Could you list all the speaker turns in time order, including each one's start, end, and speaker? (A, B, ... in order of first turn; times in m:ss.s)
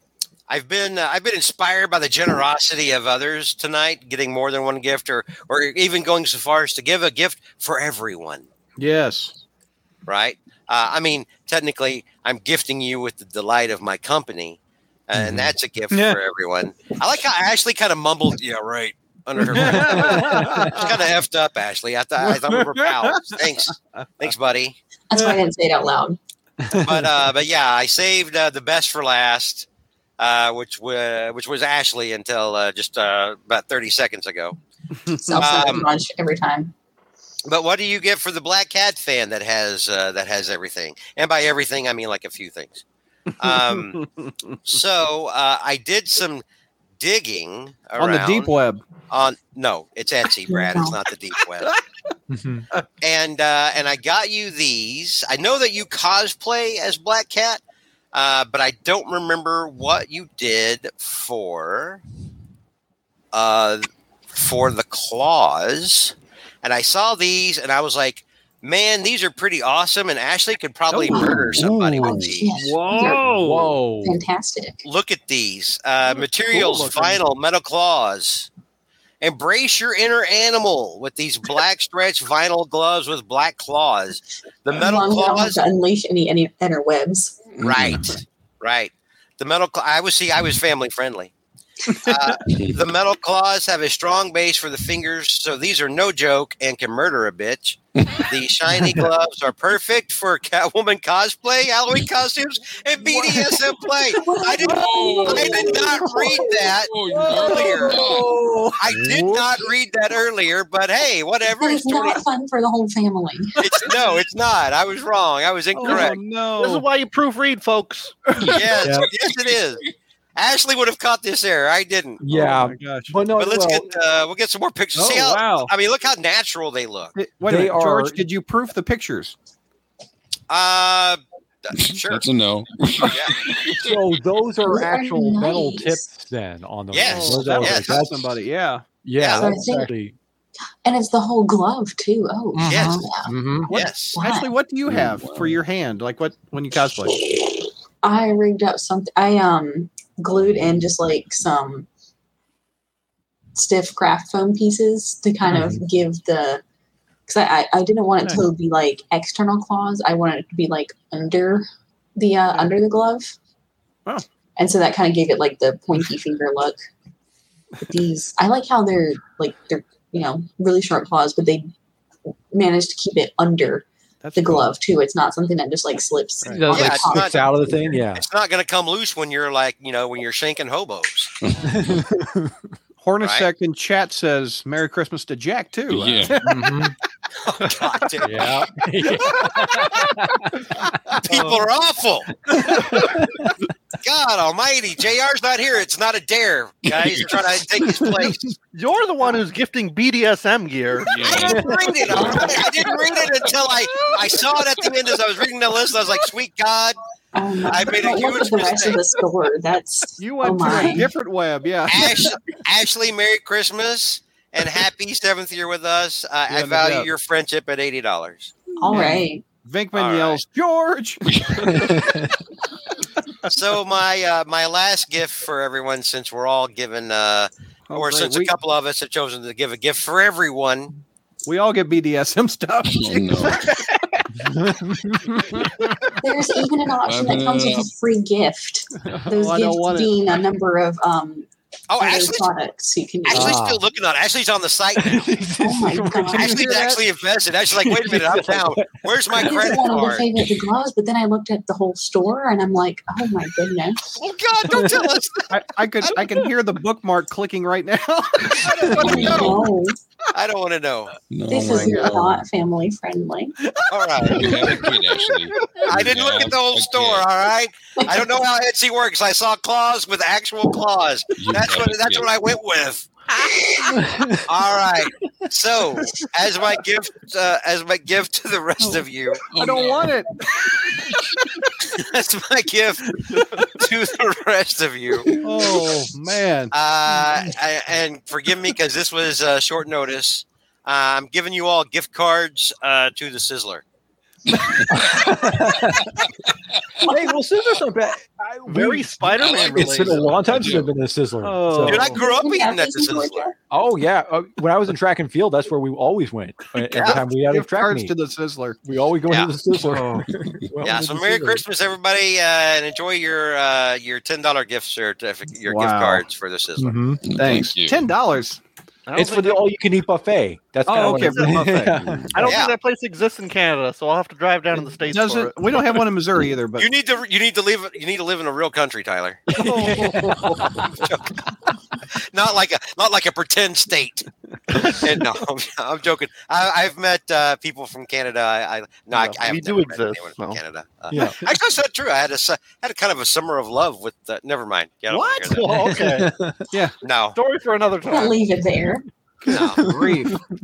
0:00.5-0:08.5 A
0:08.8-0:09.3 B
0:10.1-0:14.6 A
0:15.1-0:24.8 A
0:15.9-0:16.2 B
0:19.4-0:21.0 B
0:19.6-0:20.8 C
0:22.2-0:23.7 B
0:25.1-0:26.2 D
0:25.2-0:25.4 B
0:26.8-0:29.7 A
0:30.2-0:34.6 A
0:35.0-0:35.4 B
0:35.2-0:36.7 D
0:35.4-0:35.9 A
0:37.5-0:42.8 A
0:43.4-0:44.0 A
0:43.4-0:44.6 B
0:44.7-0:46.4 A
0:47.0-0:48.5 A
0:48.0-0:48.8 B
0:49.1-0:51.8 A
0:50.5-0:51.0 D
0:52.3-0:52.7 C
0:53.0-0:57.6 A
0:58.1-1:02.0 A
1:03.3-1:12.5 A
1:10.9-1:11.4 B
1:11.1-1:11.4 D
1:11.6-1:12.3 E
1:11.7-1:12.1 C
1:12.4-1:13.4 D
1:12.5-1:13.8 B
1:13.3-1:14.2 C
1:14.0-1:14.8 D
1:14.8-1:18.5 A
1:16.6-1:17.2 B
1:19.2-1:25.6 A
1:24.7-1:27.5 D
1:27.6-1:28.1 E
1:27.6-1:31.3 A
1:31.9-1:32.4 B
1:32.0-1:48.1 A
1:32.5-1:32.8 E
1:38.0-1:38.3 E
1:44.1-1:46.5 D
1:44.8-1:45.7 E
1:46.8-1:48.3 E
1:47.1-1:49.7 B
1:48.8-1:52.2 A
1:51.6-1:53.7 D
1:53.6-1:56.2 A
1:55.8-1:56.8 B
1:56.6-1:58.2 F
1:58.4-1:59.1 B
1:58.4-1:59.8 A
2:00.4-2:02.2 A
2:02.2-2:03.9 C
2:02.3-2:03.2 B
2:03.3-2:07.2 A
2:05.0-2:05.7 B
2:07.2-2:09.4 B
2:07.5-2:08.2 C
2:10.5-2:12.3 A
2:11.8-2:14.0 E
2:13.1-2:13.4 A
2:13.8-2:18.3 C
2:14.6-2:16.1 D
2:16.9-2:18.0 A
2:17.0-2:18.8 B
2:19.0-2:20.2 C
2:19.2-2:19.5 A
2:19.4-2:19.9 D
2:20.8-2:23.3 D
2:22.5-2:23.7 C
2:22.7-2:23.1 A
2:23.7-2:27.2 B
2:23.7-2:24.2 A
2:24.2-2:24.5 D
2:24.9-2:25.5 E
2:28.0-2:31.9 D
2:33.6-2:36.6 D
2:35.5-2:35.8 C
2:37.3-2:43.3 D
2:44.6-2:46.8 D
2:47.8-2:51.7 D
2:52.5-2:57.4 D
2:54.2-2:54.7 B
2:56.5-2:58.2 C
2:56.7-2:57.5 A
2:58.2-3:01.3 A
3:01.4-3:02.0 E
3:01.6-3:02.5 C
3:03.0-3:06.6 B
3:03.2-3:03.5 A
3:05.9-3:06.4 E
3:06.4-3:07.0 C
3:07.4-3:08.6 A
3:08.2-3:10.7 C
3:09.6-3:09.8 B
3:11.2-3:12.3 A
3:11.3-3:11.6 F
3:12.5-3:13.5 C
3:14.0-3:18.5 A
3:16.8-3:17.4 E
3:18.7-3:21.3 F
3:21.0-3:22.5 E
3:21.3-3:27.0 A
3:21.5-3:21.7 C
3:22.1-3:22.6 D
3:27.3-3:31.1 D
3:27.7-3:29.1 A
3:30.2-3:32.3 B
3:31.9-3:38.5 A
3:36.5-3:37.1 B
3:38.8-3:39.4 D
3:38.9-3:41.4 B
3:39.9-3:40.4 A
3:41.3-3:42.2 E
3:41.7-3:42.3 C
3:43.5-3:50.9 A
3:47.9-3:48.6 B
3:51.4-3:54.2 B
3:52.9-3:53.7 E
3:54.4-3:55.6 C
3:56.2-4:03.6 D
3:57.0-3:57.9 E
3:59.3-4:00.2 B
4:01.9-4:02.5 A
4:03.3-4:05.4 A
4:03.3-4:03.8 C
4:05.0-4:07.0 C
4:05.6-4:06.6 D
4:06.3-4:07.0 B
4:06.4-4:10.3 A
4:07.8-4:09.6 C
4:09.4-4:14.2 D
4:14.2-4:15.6 A
4:14.7-4:15.1 C
4:15.5-4:19.3 B
4:18.5-4:19.6 A
4:18.9-4:19.6 E
4:19.1-4:20.0 D
4:20.3-4:21.2 A
4:21.3-4:22.4 E
4:21.5-4:23.6 D
4:23.7-4:25.8 B
4:23.9-4:24.8 A
4:24.3-4:27.3 E
4:25.9-4:33.1 A
4:31.4-4:32.3 E
4:34.0-4:34.4 C
4:34.5-4:39.4 A
4:39.5-4:40.2 E
4:39.5-4:40.3 B
4:41.9-4:45.3 A
4:45.3-4:45.8 E
4:45.4-4:46.7 B
4:46.7-4:53.8 A
4:54.6-4:55.1 E
4:54.9-4:56.2 C
4:57.0-5:02.0 C
4:58.7-5:00.4 F
4:59.4-4:59.9 A
5:00.4-5:00.9 E
5:01.4-5:02.2 B
5:01.9-5:03.5 A
5:02.1-5:03.6 D
5:03.7-5:08.1 C
5:06.8-5:07.2 A
5:07.2-5:08.8 B
5:08.8-5:11.6 C
5:09.3-5:09.5 A
5:09.8-5:10.3 B
5:10.8-5:17.1 A
5:15.7-5:16.2 B
5:16.8-5:17.2 C
5:17.2-5:18.0 E
5:17.4-5:18.6 B
5:19.1-5:19.6 F
5:19.2-5:22.3 C
5:20.9-5:22.0 B
5:20.9-5:21.7 F
5:22.0-5:22.3 E
5:22.3-5:25.8 F
5:22.4-5:22.8 A
5:25.1-5:26.9 B
5:26.8-5:29.4 A
5:29.5-5:30.9 C
5:29.6-5:30.9 B
5:31.0-5:31.3 A
5:32.3-5:45.9 A
5:39.1-5:40.6 F
5:41.1-5:41.4 C
5:45.1-5:46.3 F
5:45.7-5:46.6 C
5:47.0-5:47.4 A
5:47.3-5:48.4 F
5:48.1-5:49.0 D
5:49.4-5:50.4 B
5:49.5-5:49.8 A
5:49.6-5:50.4 C